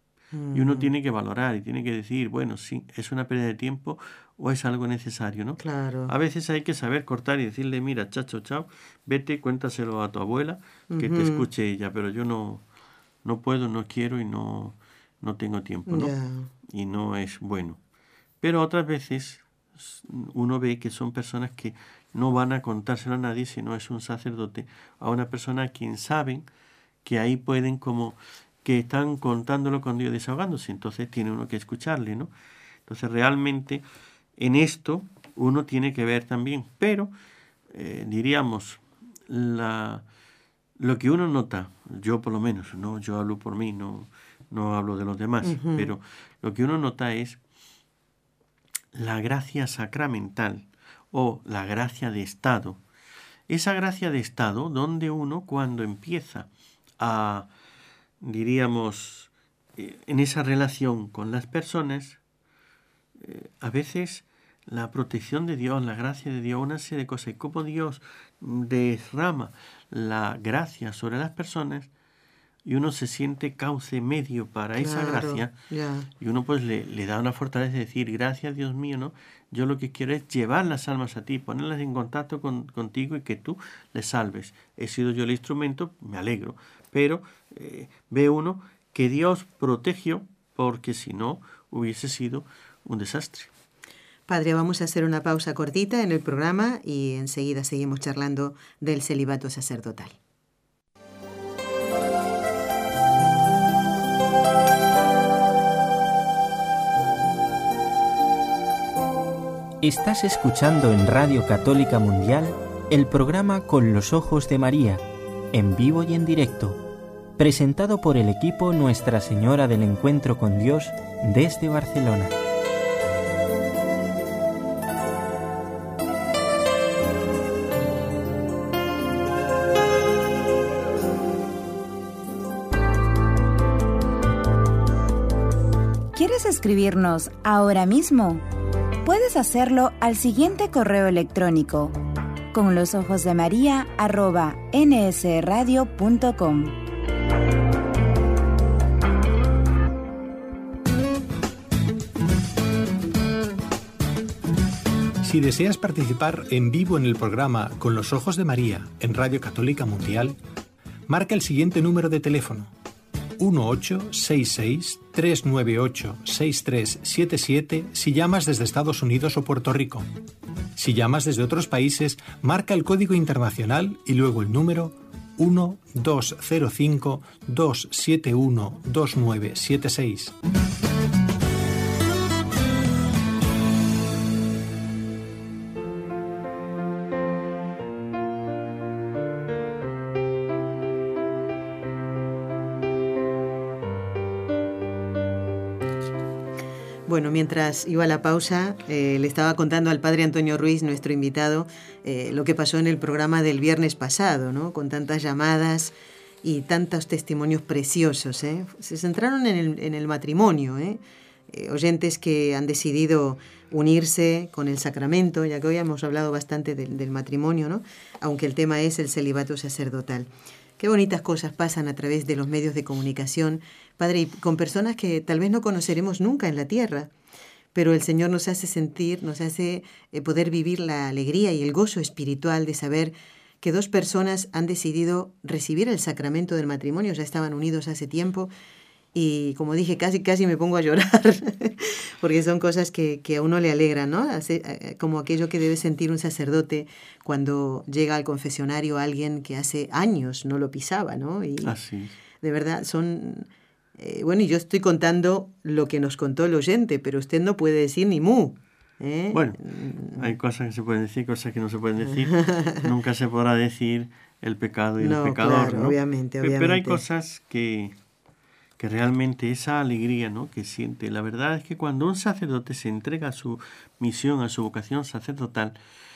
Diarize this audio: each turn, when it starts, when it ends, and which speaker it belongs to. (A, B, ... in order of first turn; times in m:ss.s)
0:00.3-0:00.9 A
0:00.5-0:12.6 B
0:05.6-0:06.1 A
0:10.9-0:11.5 A
0:13.2-0:16.1 B
0:15.9-0:16.5 A
0:16.6-0:17.8 B
0:18.4-0:26.5 B
0:27.0-0:32.3 B
0:32.9-0:33.8 B
0:34.4-0:37.1 B
0:37.7-0:40.0 B
0:40.8-0:47.4 B
0:45.4-0:45.9 A
0:48.9-0:52.8 B
0:53.5-0:57.5 B
0:58.2-1:02.2 B
1:03.2-1:11.9 B
1:12.6-1:15.5 B
1:14.8-1:16.1 A
1:16.2-1:33.5 B
1:34.3-1:40.2 A
1:49.8-1:55.0 C
1:55.5-1:56.8 C
1:57.4-2:02.3 C
2:16.1-2:18.4 D
2:19.0-2:22.0 D
2:22.5-2:26.8 D
2:35.2-2:40.4 E
2:41.1-2:42.7 E
2:43.4-2:50.0 E
2:50.8-3:00.3 E
3:17.1-3:47.1 A
3:47.7-3:58.5 A
3:59.1-4:11.8 A
4:11.6-4:12.2 B
4:12.4-4:20.3 A
4:19.3-4:19.6 B
4:20.2-4:28.0 B
4:22.1-4:22.9 A
4:25.0-4:27.0 A
4:28.8-4:35.8 B